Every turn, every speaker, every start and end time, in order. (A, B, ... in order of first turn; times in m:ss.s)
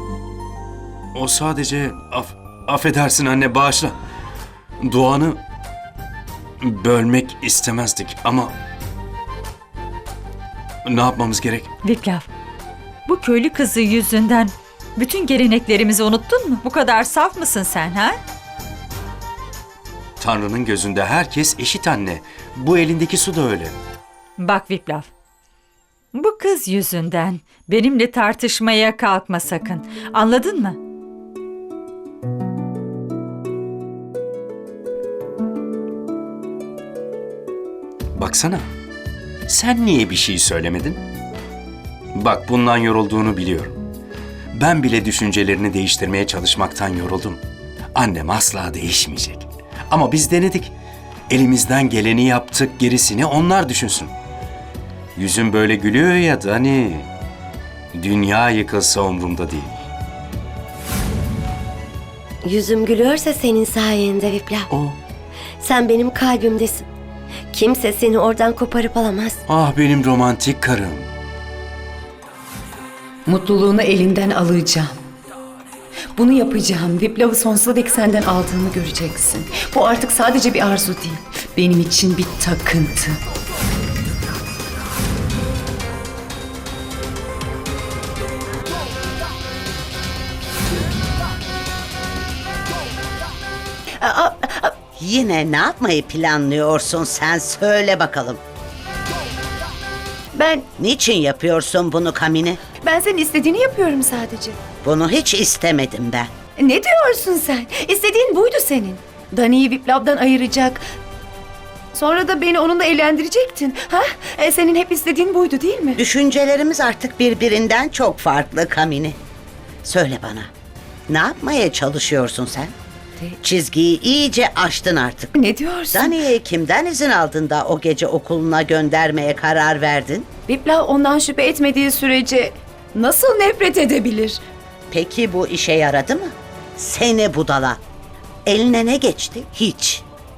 0:01.1-0:04.0 A
0:04.8-0:05.4 A
0:06.6-0:08.5 A
0:10.8-0:11.7 A
0:11.8-0:12.2 B
0:13.1-0:18.2 B
0:20.2-0:23.7 A
0:24.4-0:25.1 B
0:26.1-0:30.8 B
0:38.1-0:38.7 A
0:39.5-0:41.0 A
0:42.1-0:43.8 A
0:44.5-0:47.4 A
0:47.9-0:50.8 A
0:51.3-0:54.1 A
0:55.2-0:57.1 A
0:57.9-0:59.8 A
1:02.4-1:04.7 C
1:04.7-1:05.0 A
1:05.6-1:06.9 C
1:07.5-1:09.4 C
1:09.5-1:11.1 A
1:13.2-1:14.9 D
1:16.2-1:23.2 D
1:34.0-1:34.8 D
1:35.0-1:38.4 E
1:40.3-1:40.7 D
1:40.8-1:42.6 E
1:42.8-1:44.6 D
1:44.8-1:46.3 E
1:46.6-1:50.8 D
1:51.9-1:56.0 D
1:56.0-1:59.2 E
1:59.8-2:00.5 E
2:01.1-2:02.7 E
2:03.4-2:05.3 E
2:05.3-2:06.2 D
2:05.9-2:10.3 E
2:10.5-2:14.4 D
2:14.9-2:17.8 E
2:18.4-2:20.0 E